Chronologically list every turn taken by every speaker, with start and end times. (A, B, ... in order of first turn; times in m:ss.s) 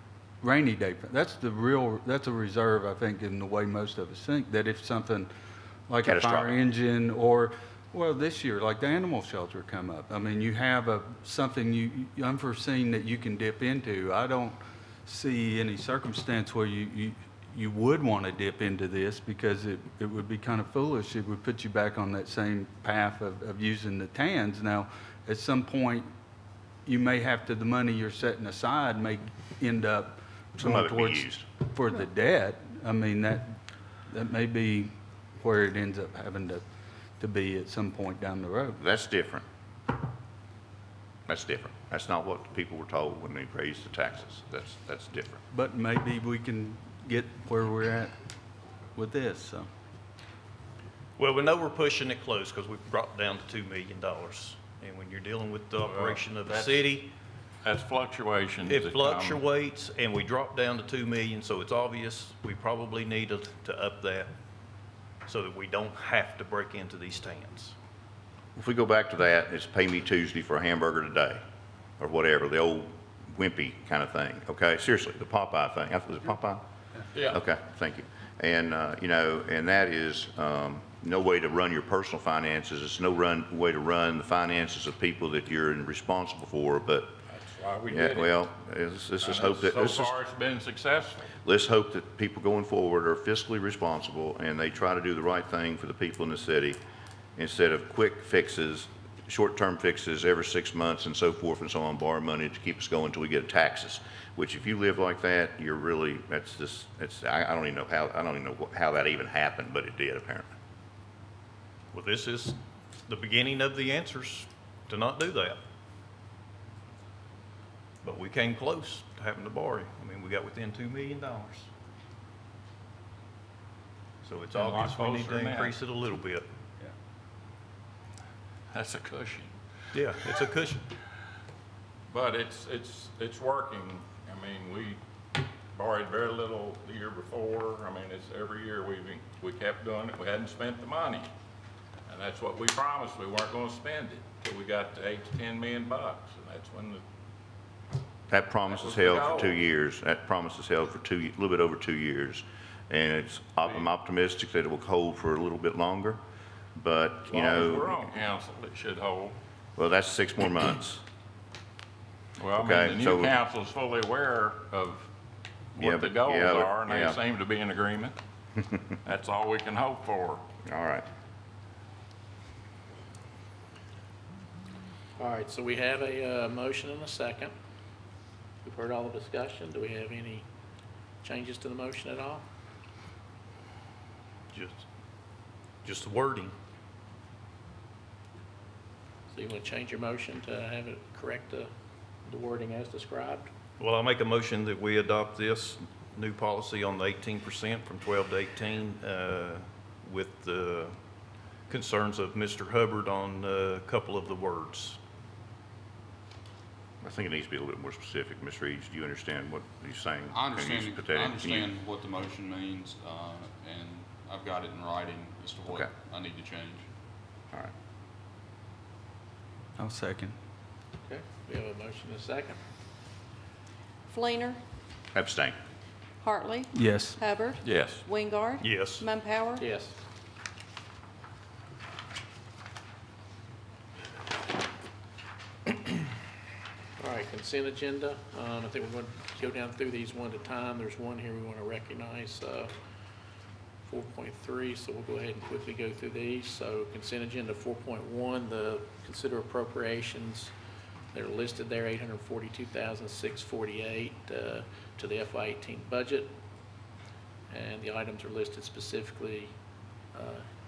0:00.4-0:05.3 A
0:05.9-0:26.1 A
0:06.0-0:06.6 B
0:26.8-0:36.6 A
0:30.6-0:31.4 B
0:37.2-0:38.8 A
0:38.8-0:39.4 B
0:41.3-0:45.4 B
0:45.5-0:48.1 A
0:48.9-0:49.7 A
0:51.2-0:57.1 C
0:55.8-0:56.2 D
0:57.6-0:59.4 D
0:58.6-1:04.3 C
1:05.2-1:07.7 C
1:08.6-1:11.4 B
1:12.0-1:16.6 B
1:17.1-1:17.4 D
1:17.3-1:27.1 B
1:27.3-1:28.4 D
1:27.9-1:30.1 B
1:29.2-1:31.3 D
1:31.4-1:36.8 B
1:37.4-1:50.5 B
1:51.9-1:55.6 C
1:58.0-2:01.7 C
2:04.2-2:06.4 C
2:04.5-2:05.8 D
2:08.7-2:09.5 D
2:09.9-2:10.8 C
2:10.0-2:10.4 D
2:12.1-2:15.0 D
2:15.7-2:21.3 D
2:22.1-2:27.0 D
2:28.3-2:36.2 B
2:28.7-2:29.6 D
2:36.7-2:38.0 B
2:37.3-2:39.4 D
2:39.8-2:41.0 B
2:42.4-2:45.1 D
2:42.6-2:43.4 B
2:45.8-2:48.2 D
2:45.8-2:47.2 B
2:49.0-2:50.4 D
2:50.6-2:51.0 B
2:55.2-2:57.5 E
2:58.6-3:00.4 E
3:01.2-3:02.4 E
3:04.5-3:04.8 C
3:05.8-3:06.5 C
3:09.3-3:11.7 E
3:12.2-3:13.5 E
3:13.8-3:21.0 C
3:21.7-3:25.0 C
3:27.0-3:31.7 B
3:30.3-3:36.8 F
3:39.8-3:40.3 A
3:41.0-3:42.6 E
3:44.1-3:44.6 G
3:45.1-3:45.6 B
3:46.2-3:49.6 G
3:46.7-3:47.2 A
3:47.6-3:48.0 D
3:48.6-3:49.1 C
3:49.6-3:50.0 E
3:57.0-4:02.7 E
4:03.8-4:10.5 E
4:11.1-4:16.3 E
4:17.5-4:19.5 E
4:20.1-4:20.4 E